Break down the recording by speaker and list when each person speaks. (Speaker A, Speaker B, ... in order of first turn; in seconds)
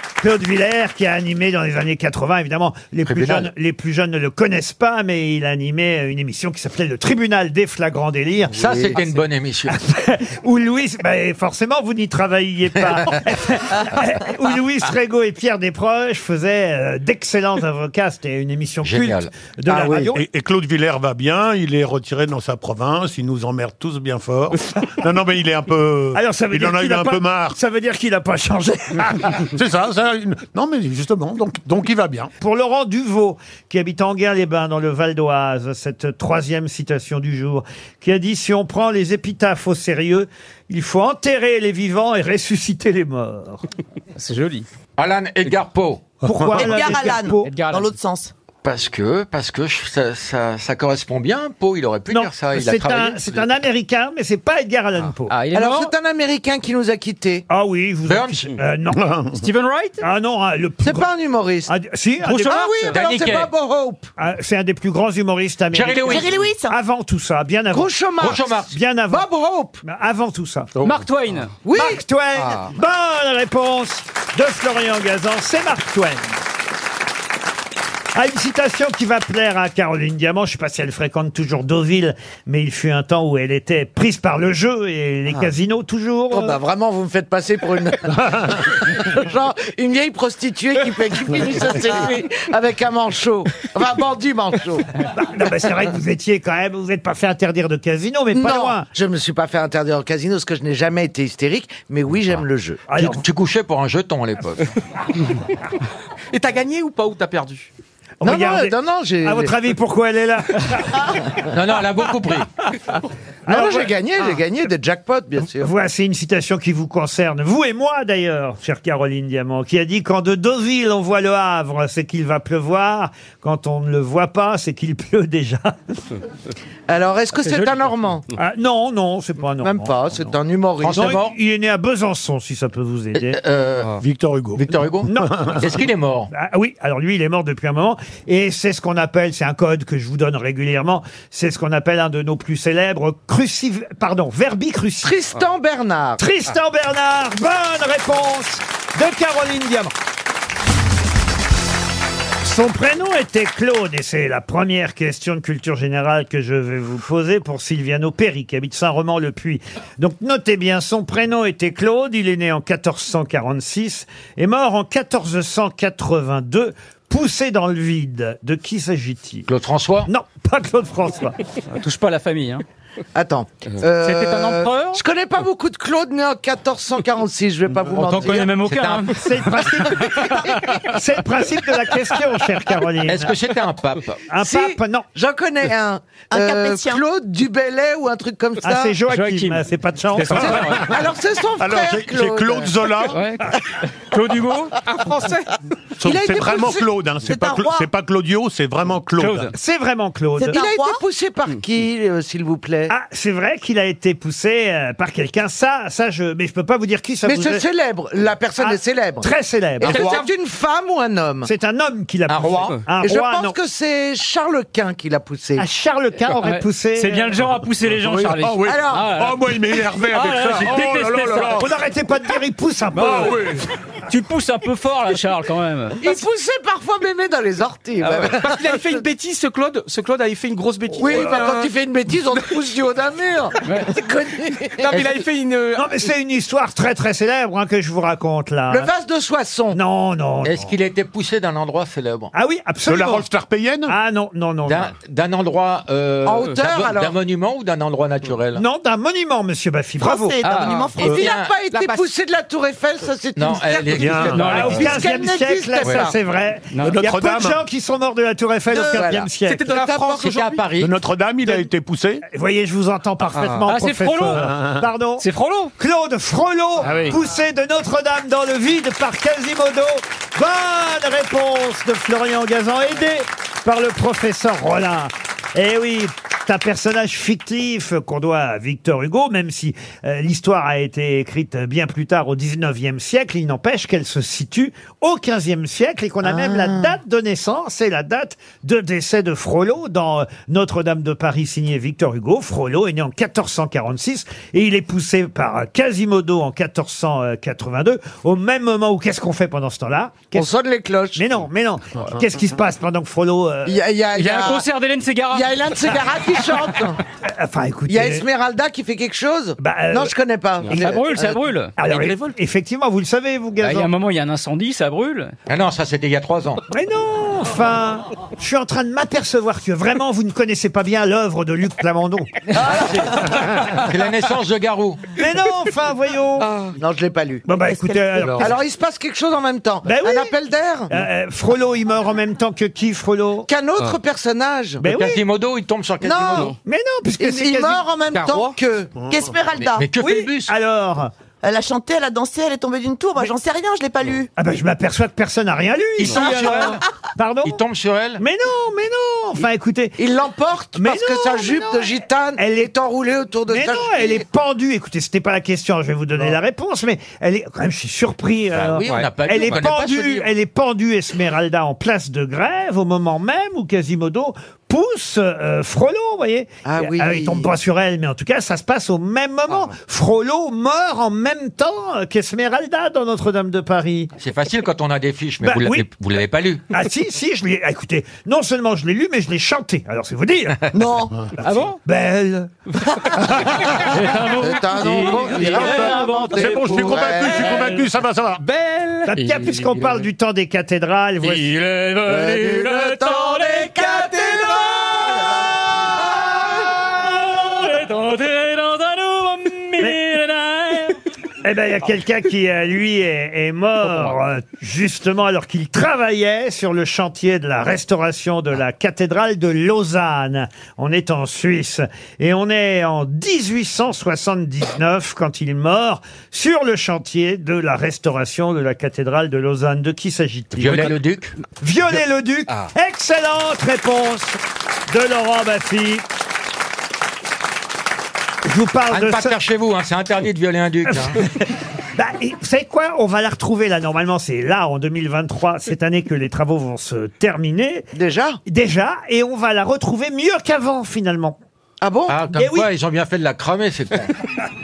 Speaker A: 0.2-8.8, 9.7-20.2, 26.1-29.4, 32.4-43.6, 46.2-47.5, 52.1-55.3, 57.5-59.0, 60.0-61.1, 61.7-62.7, 64.2-67.9, 68.7-69.2, 69.8-70.7, 71.7-76.3, 78.1-86.5, 95.1-98.9, 102.9-103.2, 108.2-111.2, 113.5-114.0, 115.5-125.8, 128.3-130.3, 130.9-133.4, 135.1-135.3, 136.3-145.2, 146.2-149.9, 152.4-169.5, 170.1-171.3, 179.2-183.3, 184.3-185.1, 188.6-190.7, 199.5-200.6, 202.9-207.6, 208.6-210.2, 211.4-213.5, 215.6-217.4, 221.5-223.4, 235.8-238.9, 239.7-240.7, 242.3-243.3, 243.9-244.9, 248.6-250.4, 254.5-259.7, 262.3-300.5, 301.1-303.8, 307.2-308.2, 309.6-310.1, 311.8-313.9, 316.7-322.3, 325.2-326.5, 327.4-328.5, 329.8-330.3, 330.9-333.5, 334.8-335.2, 336.6-337.8, 340.0-341.1, 344.4-347.6, 348.2-350.0, 350.8-352.7, 353.5-374.1, 375.4-375.9, 376.7-380.8, 381.8-383.1, 389.1-391.5, 401.4-421.0, 421.6-424.4, 424.9-426.0, 428.4-429.4, 431.9-437.9, 438.4-441.4, 442.3-442.7
Speaker B: 3.0-3.5, 8.5-9.7, 18.8-19.3, 45.0-46.0, 48.6-53.5, 58.1-58.5, 62.9-63.5, 65.7-66.4, 68.2-68.7, 103.0-104.7, 111.4-112.5, 130.8-131.4, 133.1-134.0, 134.5-136.3, 169.5-170.1, 177.9-179.1, 183.0-184.2, 212.3-212.8, 240.4-242.3, 244.7-248.6, 251.0-251.5, 253.3-254.9, 259.8-260.9, 315.5-316.6, 322.6-325.0, 334.8-336.5, 339.6-340.5, 346.0-346.9, 347.4-348.2, 358.5-360.3, 374.2-376.7, 420.5-421.3, 428.9-431.2, 442.1-444.1
Speaker C: 8.6-8.9, 19.7-20.1, 55.5-57.4, 60.8-61.7, 62.5-64.1, 67.7-68.4, 69.1-69.8, 71.6-72.0, 86.3-94.9, 98.3-102.8, 108.2-109.5, 113.5-115.7, 126.9-128.2, 129.6-131.1, 145.0-146.2, 173.1-178.5, 184.4-188.9, 190.2-193.1, 196.0-196.9, 200.5-202.9, 207.2-209.3, 209.8-211.5, 213.0-215.6, 218.7-219.1, 226.0-229.1, 231.0-234.9, 238.7-239.8, 246.2-247.1, 250.9-256.1, 258.7-260.3, 286.2-286.9, 300.3-301.2, 303.6-304.6, 305.3-307.0, 307.9-311.3, 326.8-327.4, 328.4-330.9, 333.5-334.8, 336.0-336.6, 337.2-338.9, 350.0-354.2, 358.8-359.0, 366.6-367.5, 383.7-387.8, 392.0-395.3, 437.9-438.4, 441.8-442.1
Speaker D: 20.1-27.6, 29.4-32.3, 46.2-46.8, 58.9-59.4, 70.8-71.0, 134.0-134.6, 190.2-191.0, 191.6-193.3, 196.0-199.5, 209.9-210.2, 217.9-221.7, 223.0-223.7, 242.9-243.9, 254.0-254.6, 256.8-257.6, 260.8-262.2, 264.3-264.8, 266.8-267.2, 328.2-328.5, 339.0-339.3, 385.0-388.4
Speaker E: 44.1-44.6, 47.4-47.9, 55.3-55.9, 59.4-60.0, 62.2-63.0, 70.8-71.5, 127.4-127.7, 171.7-172.6, 173.9-175.0, 178.2-179.2, 189.1-189.6, 190.2-190.9, 193.1-194.8, 199.2-199.5, 216.4-221.6, 222.9-223.3, 224.1-226.0, 228.0-228.3, 233.6-233.9, 250.4-251.0, 254.3-255.0, 263.6-264.5, 265.2-265.7, 304.1-305.6, 310.7-311.7, 313.6-315.3, 381.4-381.8, 383.7-387.8, 388.5-389.7, 391.2-394.8, 397.2-401.0
Speaker F: 46.5-48.3, 66.0-66.8, 186.3-187.0, 197.3-197.9, 200.4-201.0, 250.0-251.2, 327.7-328.2, 339.1-339.9, 341.4-344.3, 380.7-381.1
Speaker G: 72.4-72.7, 106.3-107.7, 194.9-195.5, 228.3-231.7, 234.8-236.0, 251.7-252.0, 258.8-260.6, 263.3-263.7, 311.8-312.3, 326.4-326.7, 338.2-338.5